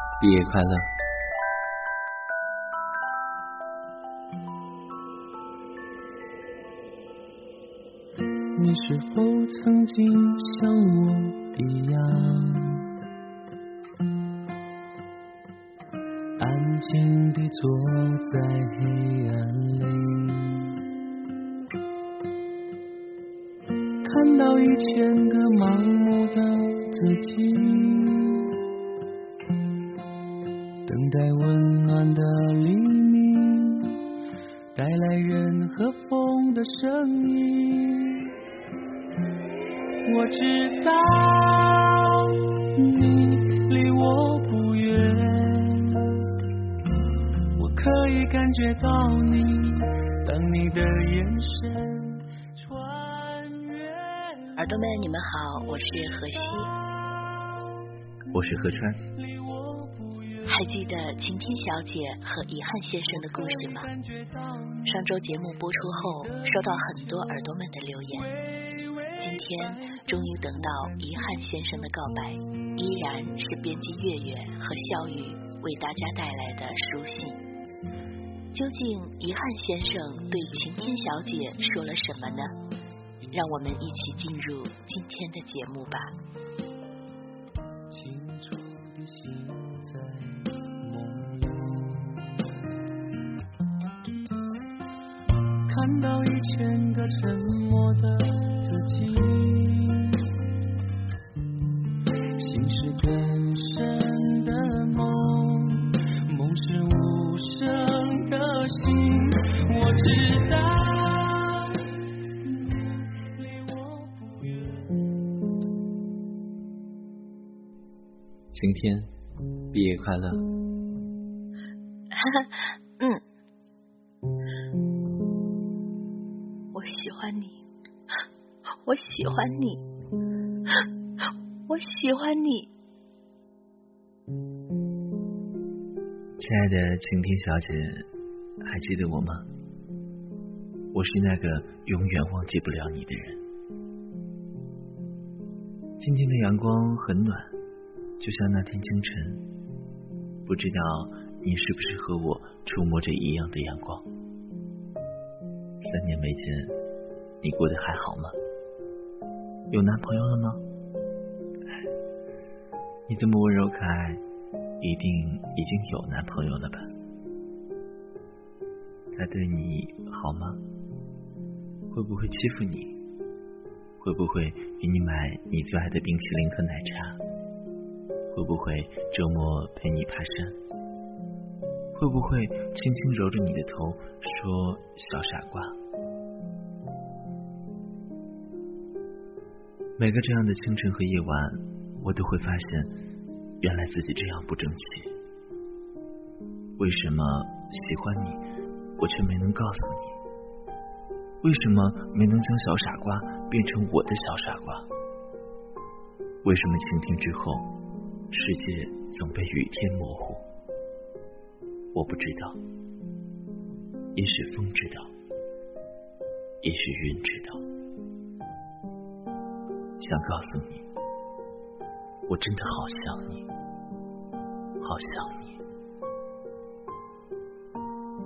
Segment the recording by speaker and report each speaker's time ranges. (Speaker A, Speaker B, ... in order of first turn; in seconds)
Speaker A: 0.2-0.9, 58.3-59.0, 118.5-119.1, 119.7-120.5, 136.4-138.1, 138.6-139.5, 140.9-143.4, 146.0-147.5, 148.2-149.4, 150.4-154.1, 155.8-156.7, 157.4-158.3, 159.7-160.6, 163.1-164.2, 164.8-166.9, 169.1-170.6, 171.9-173.0, 174.0-177.2, 178.3-180.6, 181.9-185.8, 190.0-192.9, 193.6-195.1, 196.8-198.4, 199.0-200.2, 201.4-204.9, 206.4-207.7, 208.3-210.4, 211.9-212.6, 214.2-215.1, 216.6-217.6, 220.0-220.8, 222.3-223.5, 224.8-225.6
Speaker B: 8.6-12.9, 16.4-20.8, 24.0-28.6, 30.9-34.0, 34.7-38.3, 40.0-46.3, 47.5-54.5, 59.6-60.5, 64.1-64.8, 68.7-69.1, 87.9-92.3, 95.7-100.3, 102.4-114.9
Speaker C: 54.5-56.8, 60.5-63.9, 64.8-68.3, 69.2-77.4, 78.5-82.5, 83.3-86.1, 122.1-123.2, 126.7-127.6, 128.8-129.8, 131.7-132.7